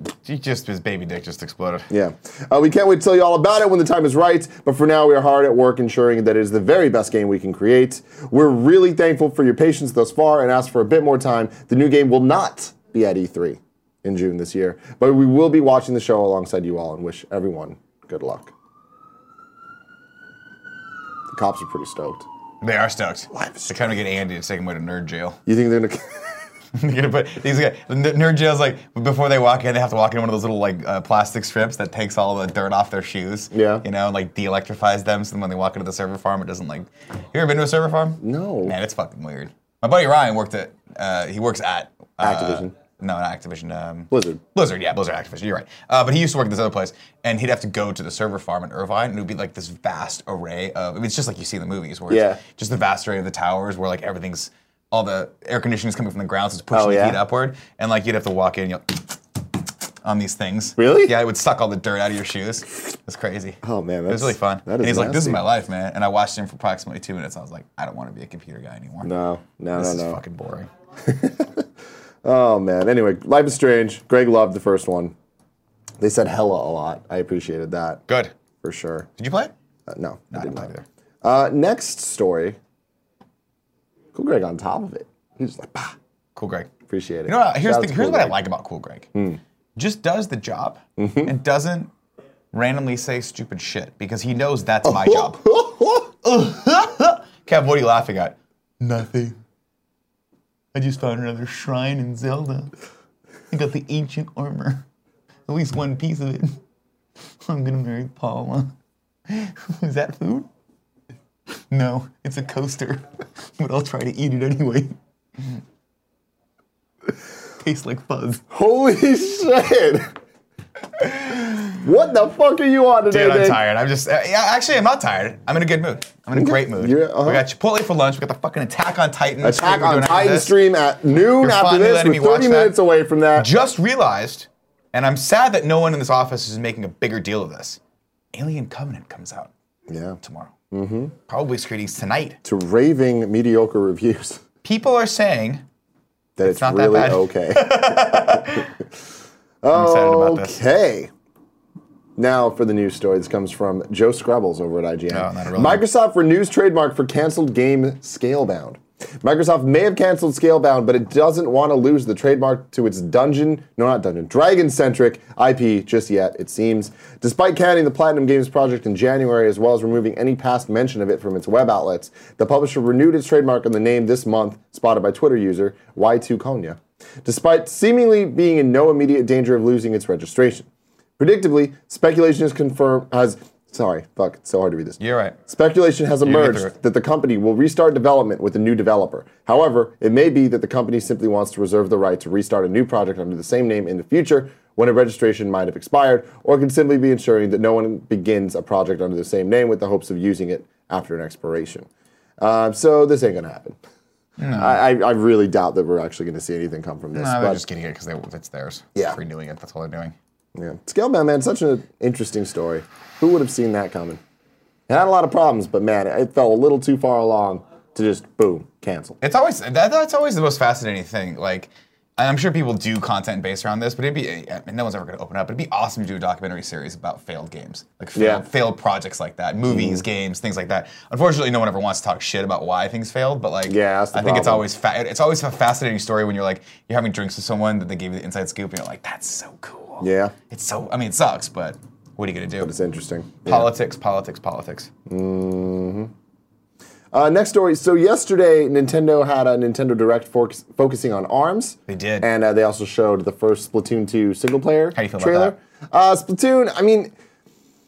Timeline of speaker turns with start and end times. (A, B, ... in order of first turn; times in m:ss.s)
0:00.2-0:01.9 A
0:01.9-0:18.5 B
0:21.3-0:22.3 B
0:22.6-0:25.4 A
0:23.3-0:23.8 B
0:25.4-0:26.3 B
0:26.8-0:59.2 A
0:33.5-0:33.8 B
0:38.2-0:38.8 B
0:42.2-0:42.7 B
0:44.1-0:44.4 B
0:52.1-0:52.4 B
0:56.7-0:57.2 B
1:00.0-1:09.1 A
1:00.8-1:01.1 B
1:03.6-1:05.4 B
1:09.0-1:10.2 B
1:09.8-1:10.7 A
1:11.0-1:11.6 B
1:12.2-1:15.1 B
1:16.0-1:18.0 B
1:18.1-1:18.3 A
1:18.6-1:19.1 B
1:19.2-1:19.5 A
1:19.9-1:20.7 B
1:20.3-1:20.8 A
1:21.2-1:22.6 B
1:24.1-1:26.0 B
1:26.4-1:26.7 A
1:26.9-1:28.3 B
1:27.2-1:29.1 A
1:29.1-1:29.4 B
1:29.8-1:31.9 A
1:31.0-1:31.3 B
1:32.5-1:35.4 A
1:34.8-1:36.1 B
1:36.2-1:39.4 A
1:40.7-1:42.7 A
1:43.5-1:44.8 A
1:45.5-1:46.6 A
1:47.4-1:48.7 A
1:49.3-1:50.5 A
1:51.7-1:53.0 A
1:53.6-1:55.6 A
1:57.6-1:58.4 A
1:58.5-2:00.1 B
2:01.1-2:01.8 A
2:01.7-2:03.6 B
2:03.1-2:10.5 A
2:06.3-2:07.4 B
2:09.4-2:13.5 B
2:11.4-2:12.7 A
2:13.4-2:17.8 A
2:18.3-2:19.5 A
2:19.9-2:20.2 B
2:20.2-2:20.5 A
2:20.7-2:21.1 B
2:21.3-2:22.4 A
2:22.4-2:24.4 B
2:24.6-2:25.6 A
2:26.4-2:28.7 B
2:26.4-2:28.7 A
2:29.6-2:31.1 B
2:29.7-2:30.6 A
2:32.2-3:00.7 B
2:35.1-2:35.8 A
3:01.2-3:21.9 B
3:05.0-3:05.4 A
3:06.2-3:06.7 A
3:22.4-3:23.8 B
3:24.4-3:24.8 A
3:24.6-3:27.6 B
3:27.1-3:30.1 A
3:30.5-3:34.2 B
3:34.9-3:39.2 B
3:39.2-4:02.7 A
3:48.1-3:48.4 B
3:49.7-3:50.0 B
3:53.7-3:54.6 B
4:00.0-4:00.3 B
4:02.6-4:03.7 B
4:03.4-4:04.9 A
4:05.1-4:06.1 B
4:07.1-4:17.1 B
4:11.9-4:12.3 A
4:14.9-4:15.5 A